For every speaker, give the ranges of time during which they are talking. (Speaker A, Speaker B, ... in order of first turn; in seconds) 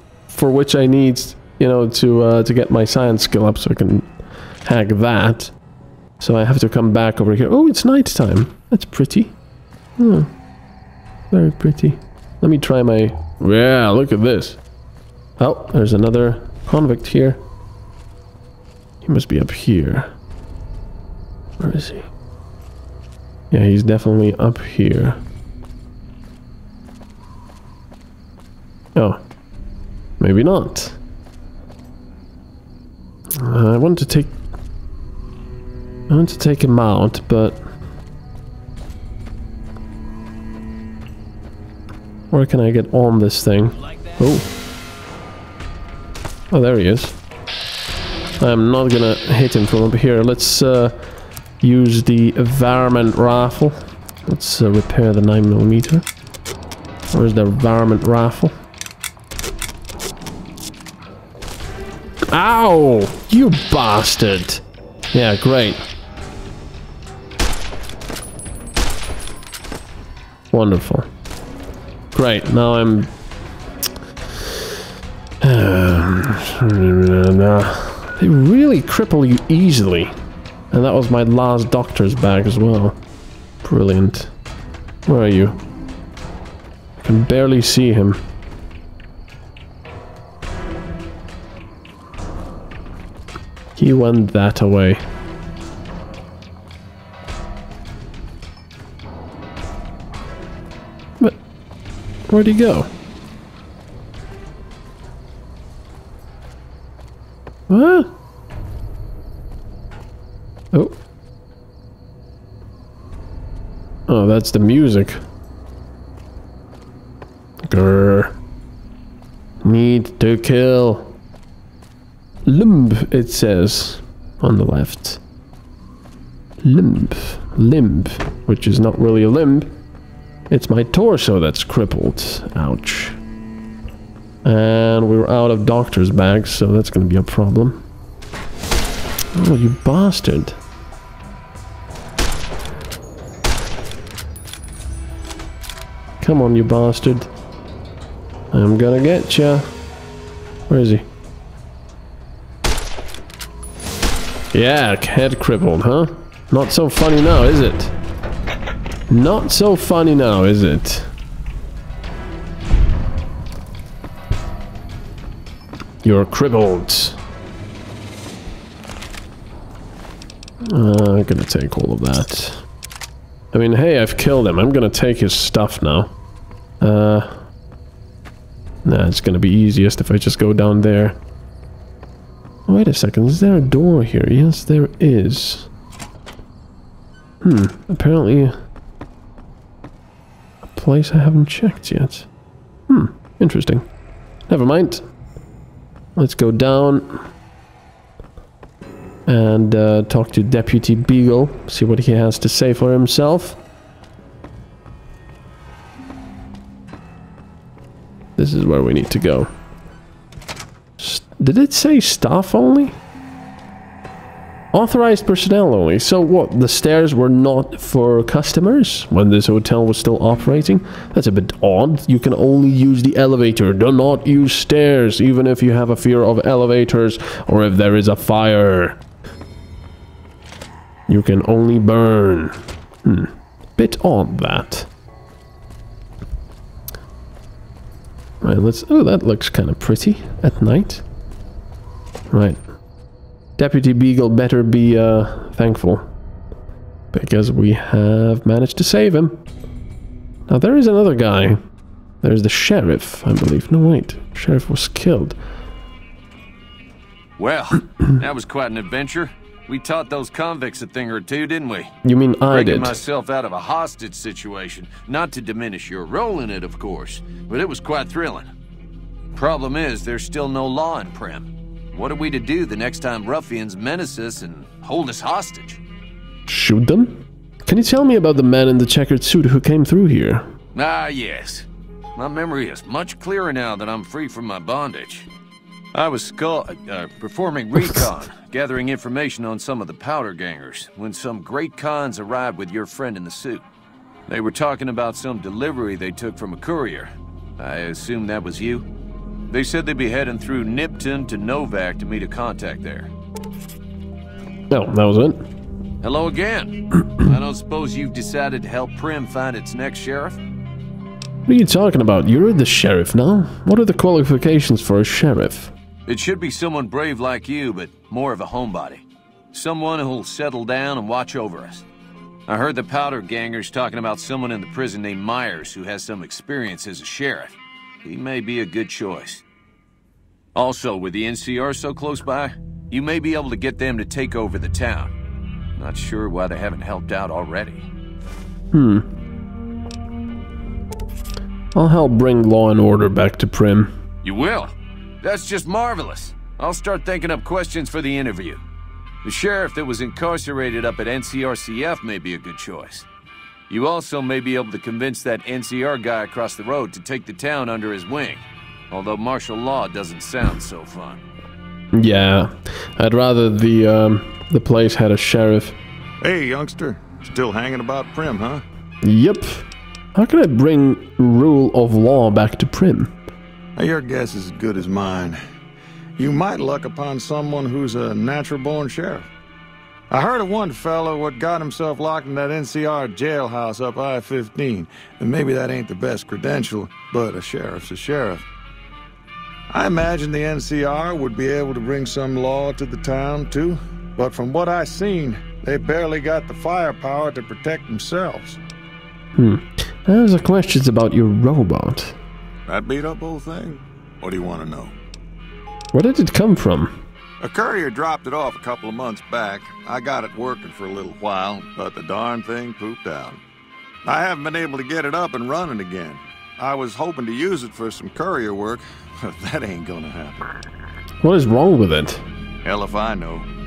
Speaker A: 0.3-5.5, 6.2-9.3, 10.0-10.3, 11.3-14.6, 15.4-17.4, 19.0-20.1, 21.6-22.1, 23.5-25.2, 29.0-29.2, 30.2-31.0, 33.4-34.4, 36.1-37.6, 42.3-44.5, 46.5-47.2, 48.4-51.0, 51.6-56.0, 57.1-58.5, 62.3-65.8, 70.5-71.1, 72.1-73.1, 75.4-80.1, 80.7-83.0, 83.6-84.3, 85.1-85.6, 87.0-88.2, 93.8-95.0, 102.3-102.9, 107.7-108.1, 110.7-111.0, 114.1-115.2, 117.6-118.4, 119.6-121.2, 122.5-125.2, 126.6-129.7, 130.5-133.2, 134.4-137.9, 139.3-140.6, 146.2-147.3, 148.5-149.7, 150.7-151.1, 154.5-157.9, 159.1-161.1, 166.0-167.2, 170.7-172.7, 173.5-176.1, 176.8-177.5, 178.8-181.2, 182.7-185.7, 187.4-188.5, 190.7-192.3, 192.9-193.8, 194.5-195.1, 196.2-197.3, 199.3-203.6, 208.4-209.5, 211.0-213.0, 214.7-229.0, 231.1-234.9, 238.4-241.0, 242.3-242.6, 243.6-246.1, 247.1-249.4, 250.5-251.6, 252.2-255.4, 262.0-262.9, 276.5-280.5, 304.7-305.4, 311.5-315.7, 338.7-339.1, 341.7-343.9, 361.9-365.8, 369.0-373.1, 399.4-402.2, 405.9-407.0, 421.2-422.2
Speaker B: 257.4-261.9, 262.5-268.5, 269.3-275.8, 280.7-285.3, 285.9-293.6, 294.3-298.9, 299.5-303.1, 306.0-310.4, 316.1-321.9, 322.5-329.4, 330.6-335.1, 335.8-337.9, 344.2-348.6, 349.2-353.1, 353.7-361.2
Speaker C: 366.2-368.6, 373.8-375.4, 376.2-379.3, 380.1-388.4, 389.7-398.6, 402.7-404.9, 407.4-413.4, 414.1-420.6, 422.6-423.5